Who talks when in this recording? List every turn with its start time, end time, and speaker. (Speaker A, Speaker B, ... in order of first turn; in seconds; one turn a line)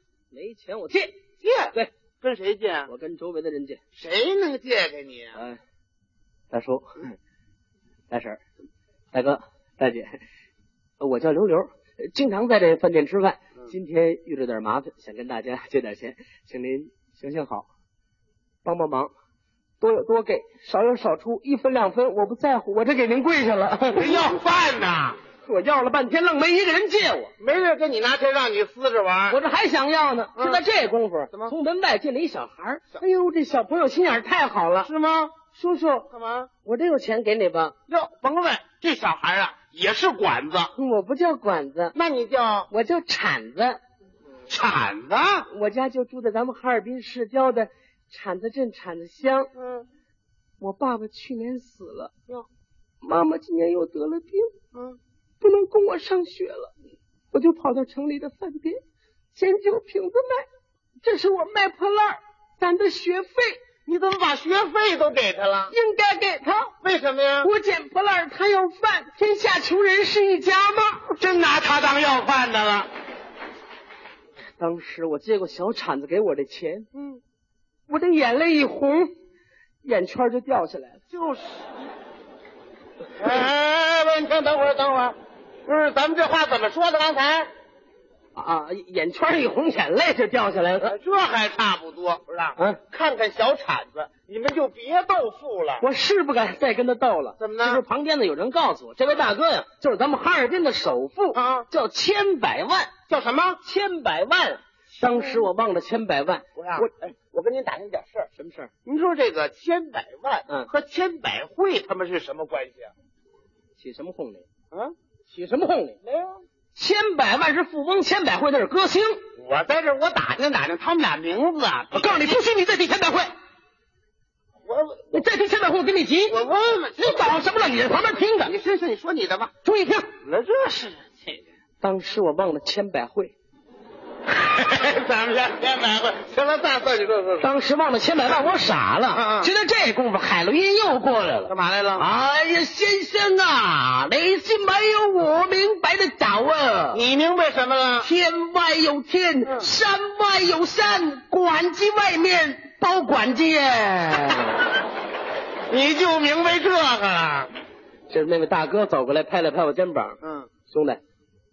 Speaker A: 0.3-1.1
Speaker B: 1.4-2.9
Speaker A: 2.9-3.8
Speaker B: 4.0-5.4
Speaker A: 6.5-7.2
Speaker A: 8.1-8.4
Speaker A: 9.1-10.2
Speaker A: 11.0-17.7
Speaker A: 18.6-19.1
Speaker A: 19.8-24.3
Speaker B: 23.9-25.2
Speaker A: 25.4-27.3
Speaker B: 27.4-29.4
Speaker A: 29.3-34.9
Speaker B: 30.4-30.6
Speaker B: 34.8-35.3
Speaker A: 35.5-36.1
Speaker B: 36.1-36.5
Speaker A: 36.6-37.7
Speaker B: 37.9-40.7
Speaker A: 40.8-42.0
Speaker B: 41.9-42.7
Speaker A: 42.7-43.8
Speaker B: 44.5-45.5
Speaker A: 45.5-49.5
Speaker B: 49.6-49.9
Speaker A: 50.6-52.1
Speaker A: 53.0-54.5
Speaker B: 54.7-55.0
Speaker A: 55.4-56.7
Speaker A: 57.3-58.8
Speaker A: 59.3-60.5
Speaker A: 61.0-63.6
Speaker B: 63.9-65.7
Speaker A: 65.7-66.7
Speaker B: 66.8-67.5
Speaker A: 67.4-71.2
Speaker B: 71.2-72.9
Speaker A: 74.6-76.9
Speaker B: 76.9-77.2
Speaker A: 77.9-79.1
Speaker A: 79.8-81.0
Speaker B: 81.1-81.6
Speaker B: 83.2-87.5
Speaker A: 88.3-90.9
Speaker B: 90.8-95.8
Speaker A: 95.8-102.9
Speaker B: 97.4-97.8
Speaker B: 101.3-101.7
Speaker B: 103.1-103.6
Speaker A: 103.6-106.9
Speaker B: 105.0-105.5
Speaker B: 106.6-108.3
Speaker A: 108.3-108.7
Speaker B: 108.8-112.9
Speaker A: 113.8-114.5
Speaker A: 115.3-116.0
Speaker B: 116.0-116.4
Speaker A: 116.7-119.2
Speaker B: 119.4-122.3
Speaker A: 121.9-123.3
Speaker B: 124.6-125.0
Speaker A: 125.1-126.4
Speaker B: 126.3-127.3
Speaker A: 127.0-128.6
Speaker B: 128.4-129.5
Speaker A: 129.6-130.1
Speaker B: 130.2-131.3
Speaker A: 131.8-133.3
Speaker B: 134.3-137.4
Speaker A: 137.4-147.0
Speaker B: 139.1-139.5
Speaker B: 141.5-142.1
Speaker B: 146.9-148.1
Speaker A: 148.0-154.7
Speaker B: 155.7-157.5
Speaker A: 158.1-161.0
Speaker B: 160.2-160.5